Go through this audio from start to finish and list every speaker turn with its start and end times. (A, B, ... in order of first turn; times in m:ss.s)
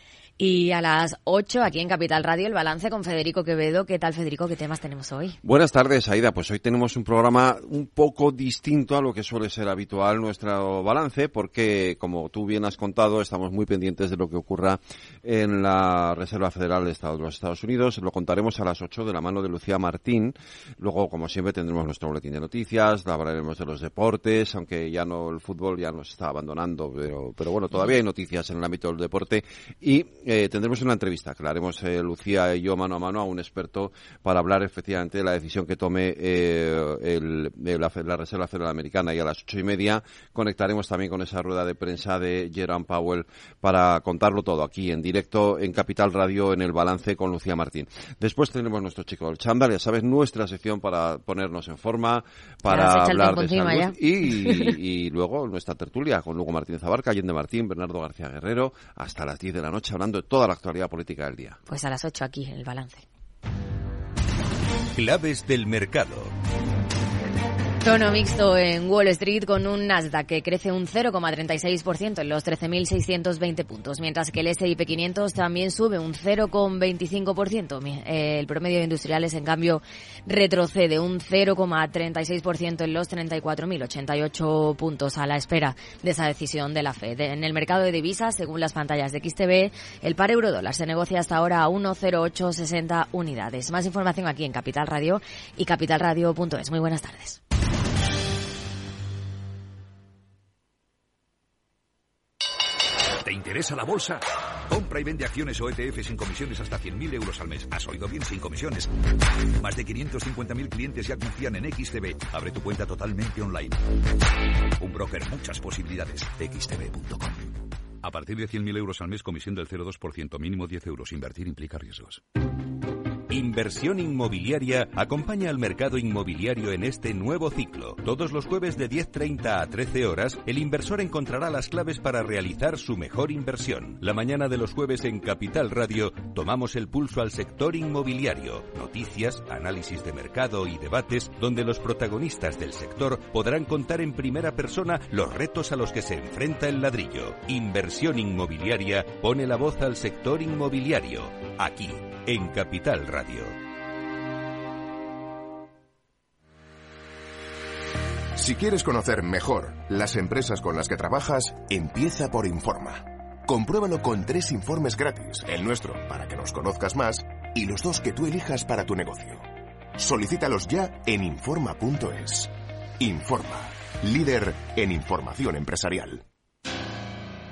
0:00.4-0:05.4 A
0:05.4-1:01.6 B
0:52.7-0:54.0 A
1:01.7-1:03.0 A
1:04.9-1:06.3 C
1:07.8-1:37.4 A
1:43.2-1:48.9 D
1:49.5-1:53.8 D
1:54.8-2:02.2 D
2:03.3-2:33.5 C
2:38.3-2:56.2 E